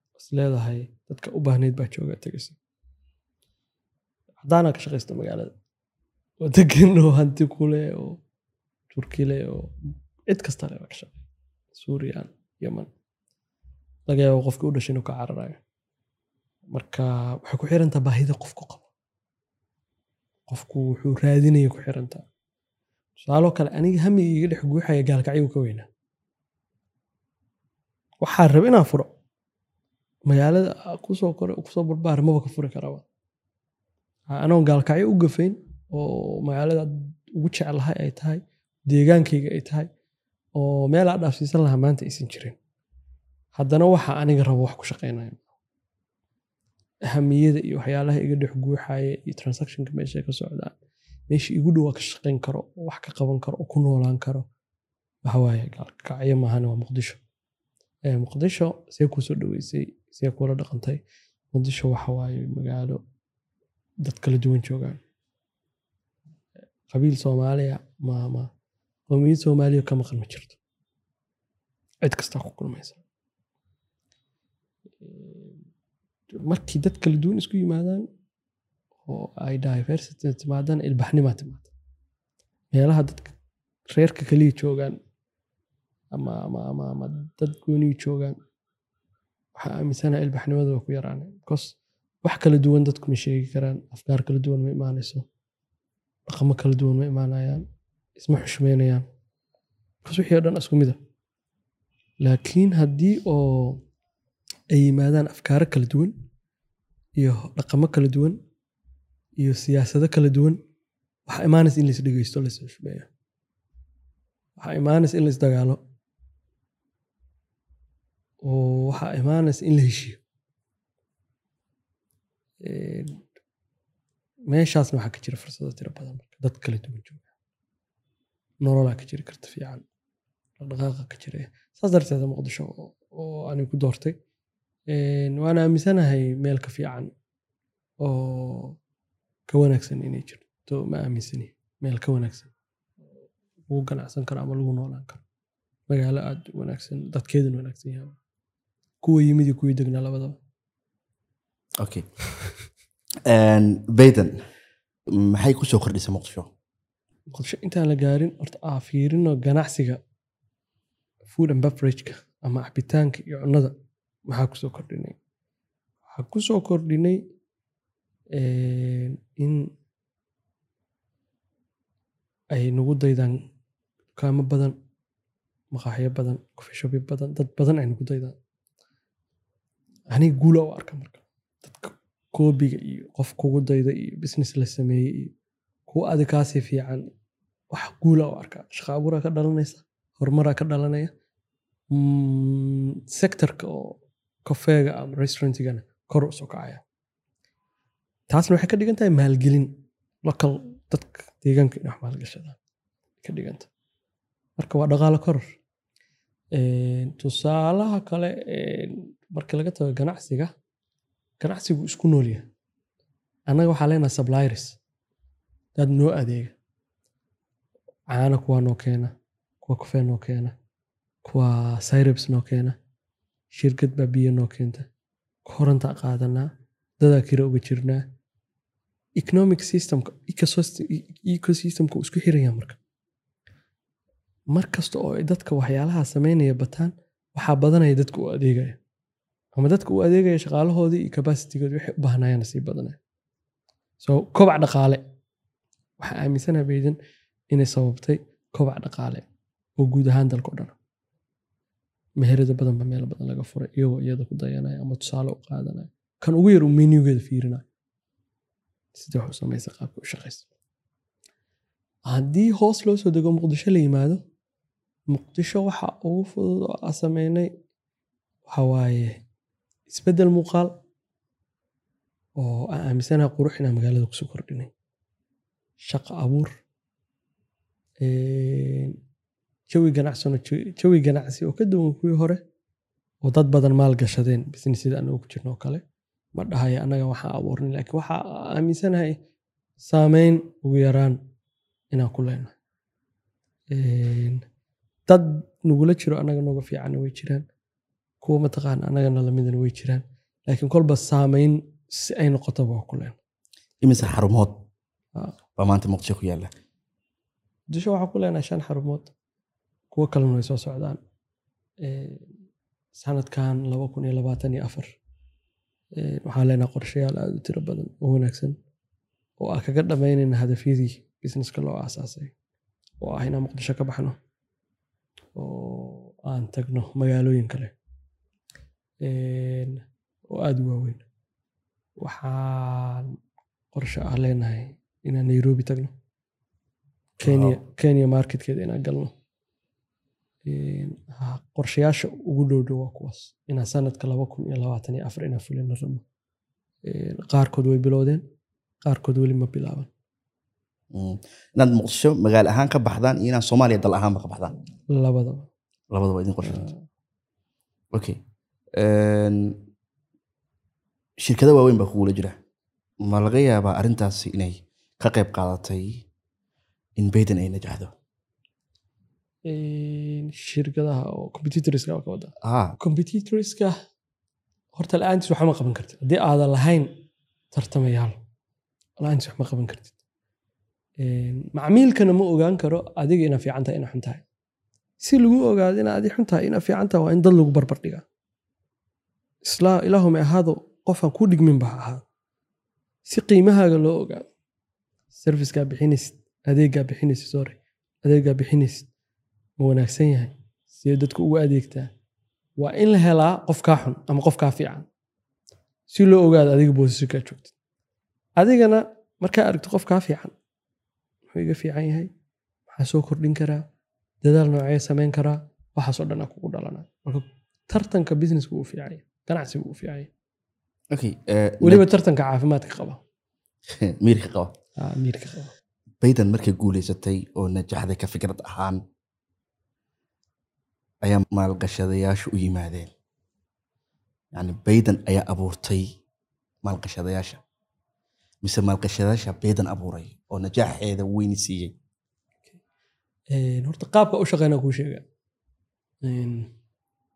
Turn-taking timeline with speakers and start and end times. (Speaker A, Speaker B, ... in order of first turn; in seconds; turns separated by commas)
Speaker A: 0.2-2.6, Speaker A: 4.4-5.5, Speaker A: 6.4-8.2, Speaker A: 8.9-9.7, Speaker A: 10.3-11.2, Speaker A: 11.7-12.9, Speaker A: 14.1-15.6, Speaker A: 16.7-18.9, Speaker A: 20.5-22.3, Speaker A: 23.2-25.9, Speaker A: 28.2-29.1, Speaker A: 30.3-33.0, Speaker A: 34.3-39.9, Speaker A: 40.6-42.6, Speaker A: 43.6-45.5, Speaker A: 47.1-50.7, Speaker A: 51.3-54.5, Speaker A: 55.2-57.2, Speaker A: 58.1-61.0, Speaker A: 61.5-63.0, Speaker A: 64.0-65.0, Speaker A: 66.9-68.5, Speaker A: 69.1-70.6, Speaker A: 72.0-73.0, Speaker A: 75.0-75.6, Speaker A: 76.3-78.1, Speaker A: 79.1-81.7, Speaker A: 82.7-83.3, Speaker A: 83.9-85.0, Speaker A: 86.1-88.4, Speaker A: 89.6-95.2, Speaker A: 96.3-97.7, Speaker A: 98.2-99.0, Speaker A: 100.0-101.0, Speaker A: 102.2-103.8, Speaker A: 104.7-106.2, Speaker A: 107.2-108.4, Speaker A: 109.4-110.6, Speaker A: 111.3-113.1, Speaker A: 114.6-115.8, Speaker A: 118.4-120.2, Speaker A: 122.6-123.2, Speaker A: 124.5-127.2, Speaker A: 128.6-129.8, Speaker A: 130.6-134.2, Speaker A: 134.9-137.1, Speaker A: 138.0-138.8, Speaker A: 139.5-142.5, Speaker A: 143.7-145.2, Speaker A: 145.9-148.2, Speaker A: 149.0-150.4, Speaker B: 151.8-152.1, Speaker B: 153.3-154.4, Speaker B: 155.1-156.5, Speaker A: 157.3-160.0, Speaker A: 161.3-163.8, Speaker A: 164.3-165.2, Speaker A: 166.1-167.2, Speaker A: 168.3-169.7, Speaker A: 172.5-173.4, Speaker A: 174.2-174.8, Speaker A: 175.7-178.4, Speaker A: 180.1-185.3, Speaker A: 185.9-187.1, Speaker A: 187.7-191.1, Speaker A: 191.9-196.8, Speaker A: 198.3-202.6, Speaker A: 203.2-203.7, Speaker A: 204.6-205.6, Speaker A: 206.5-210.5, Speaker A: 211.4-212.5, Speaker A: 213.5-214.8, Speaker A: 215.8-216.5, Speaker A: 218.1-220.6, Speaker A: 221.2-222.8, Speaker A: 223.5-224.9, Speaker A: 225.4-226.5, Speaker A: 227.0-228.1, Speaker A: 229.2-232.8, Speaker A: 234.5-238.8, Speaker A: 239.6-243.0, Speaker A: 244.0-245.0, Speaker A: 246.0-247.0, Speaker A: 247.5-249.2, Speaker A: 249.8-250.8, Speaker A: 252.2-257.6, Speaker A: 258.9-260.5, Speaker A: 262.1-264.2, Speaker A: 265.1-267.5, Speaker A: 268.5-269.2, Speaker A: 269.9-270.7, Speaker A: 272.4-274.7, Speaker A: 275.8-276.5, Speaker A: 278.0-279.0, Speaker A: 279.7-282.4, Speaker A: 283.2-285.8, Speaker A: 286.4-289.2, Speaker A: 289.8-291.2, Speaker A: 291.9-292.5, Speaker A: 293.7-294.4, Speaker A: 295.1-297.4, Speaker A: 298.2-303.2, Speaker B: 303.8-304.6, Speaker B: 305.6-306.5, Speaker A: 307.7-309.1, Speaker A: 309.9-311.0, Speaker A: 311.8-312.3, Speaker A: 312.9-314.9, Speaker A: 316.0-318.6, Speaker A: 319.4-322.3, Speaker A: 323.0-324.2, Speaker A: 325.4-327.7, Speaker A: 329.0-331.0, Speaker A: 332.0-333.2, Speaker A: 333.7-335.9, Speaker A: 337.2-339.1, Speaker B: 337.2-337.6, Speaker A: 340.5-346.0, Speaker A: 346.9-348.2, Speaker A: 348.9-349.9, Speaker B: 350.9-354.6, Speaker A: 354.9-355.5, Speaker B: 355.9-356.7, Speaker A: 356.4-356.8, Speaker B: 357.9-358.2, Speaker B: 358.8-359.6, Speaker B: 361.2-362.4, Speaker B: 363.0-366.1, Speaker B: 367.0-367.9, Speaker A: 369.5-373.8, Speaker B: 372.4-372.8, Speaker A: 374.8-376.9, Speaker A: 377.5-378.2, Speaker A: 379.0-379.9, Speaker A: 381.0-384.2, Speaker A: 385.0-388.0, Speaker A: 389.4-392.0, Speaker A: 393.1-394.3, Speaker A: 395.1-398.9, Speaker A: 399.6-401.9, Speaker A: 402.6-404.9, Speaker A: 405.9-407.5, Speaker A: 408.4-410.3, Speaker A: 411.3-412.1, Speaker A: 412.7-413.6, Speaker A: 414.2-420.1, Speaker B: 420.9-421.9, Speaker A: 421.6-423.0, Speaker B: 423.7-424.5, Speaker A: 424.8-425.5, Speaker B: 426.0-428.8, Speaker B: 431.0-432.9, Speaker B: 434.3-436.0, Speaker B: 436.6-437.4, Speaker B: 438.4-441.8, Speaker A: 443.3-445.1, Speaker A: 446.0-446.5